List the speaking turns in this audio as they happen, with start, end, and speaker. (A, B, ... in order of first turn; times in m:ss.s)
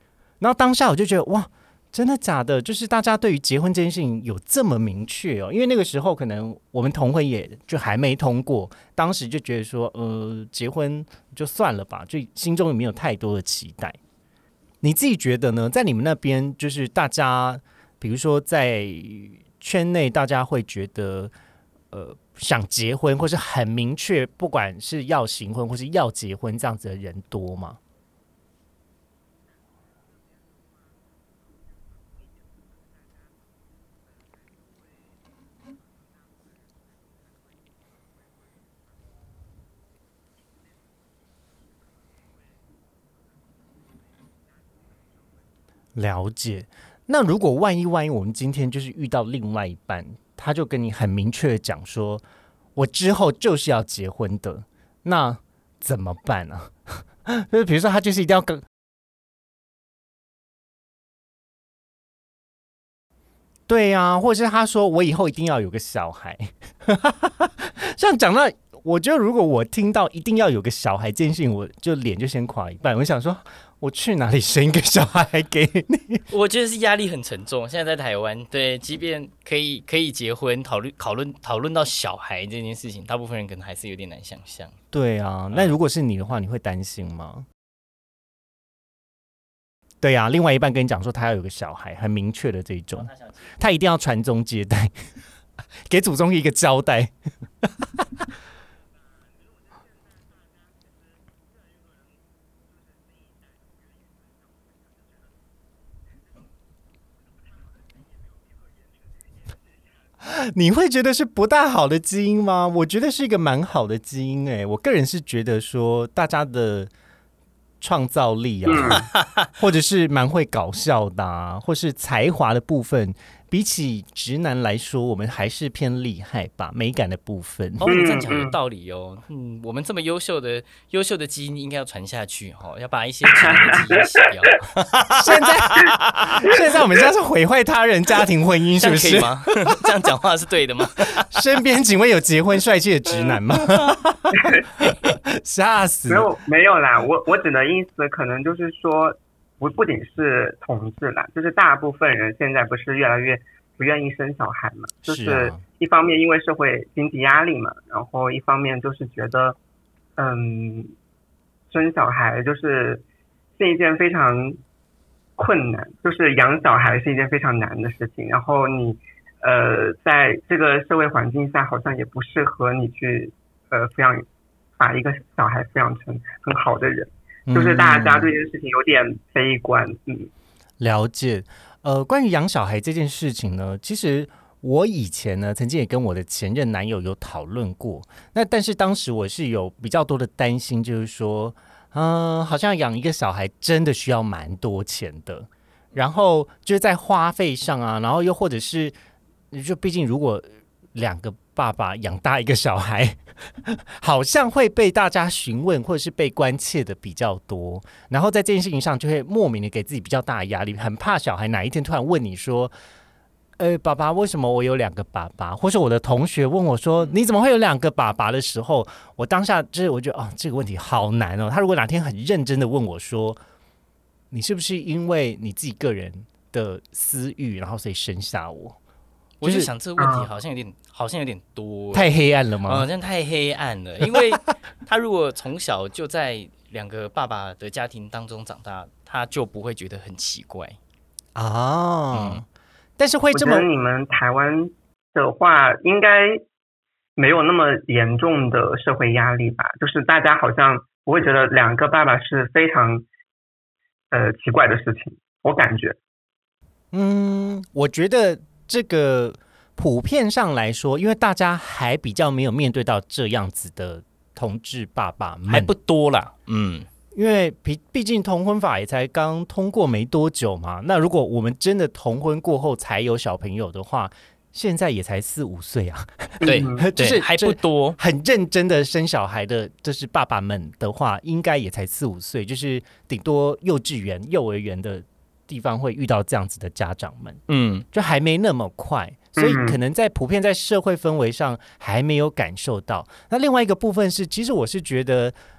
0:00.4-0:14.0 A
0:14.8-0:21.3 A
0:21.9-0:27.8 A
0:45.9-0:52.2 A
0:52.8-0:58.6 A
1:03.7-1:16.2 A
1:16.3-1:24.7 B
1:24.9-1:27.4 A
1:30.0-1:34.9 A
1:35.9-1:38.2 A
1:50.2-1:56.9 A
1:57.8-1:59.1 A
1:58.6-1:59.0 C
1:58.8-1:59.5 B
1:59.6-2:07.9 A
2:07.8-2:16.4 B
2:07.9-2:08.5 C
2:13.3-2:14.5 C
2:15.1-2:19.8 A
2:18.8-2:21.5 B
2:21.3-2:26.3 A
2:23.3-2:23.9 B
2:24.4-2:24.6 C
2:26.1-2:39.6 C
2:35.0-2:35.6 A
2:40.2-2:40.9 C
2:41.7-2:43.0 C
2:43.6-2:44.6 C
2:45.4-2:54.2 C
2:54.8-3:00.3 C
2:57.5-2:58.3 A
3:00.8-3:18.9 A
3:19.5-3:32.7 A
3:33.6-3:43.4 A
3:44.3-3:48.8 A
3:49.4-3:52.1 B
3:49.4-3:49.7 A
3:50.0-3:50.2 C
3:51.9-3:52.9 A
3:52.6-4:00.8 B
4:01.3-4:02.4 A
4:02.1-4:02.4 B
4:03.0-4:03.7 A
4:03.3-4:06.4 C
4:07.2-4:13.0 C
4:14.1-4:16.0 C
4:16.9-4:25.7 A
4:25.5-4:26.9 B
4:27.1-4:55.3 A
4:36.4-4:36.8 C
4:36.4-4:38.0 B
4:47.5-4:47.8 B
4:49.4-4:49.8 C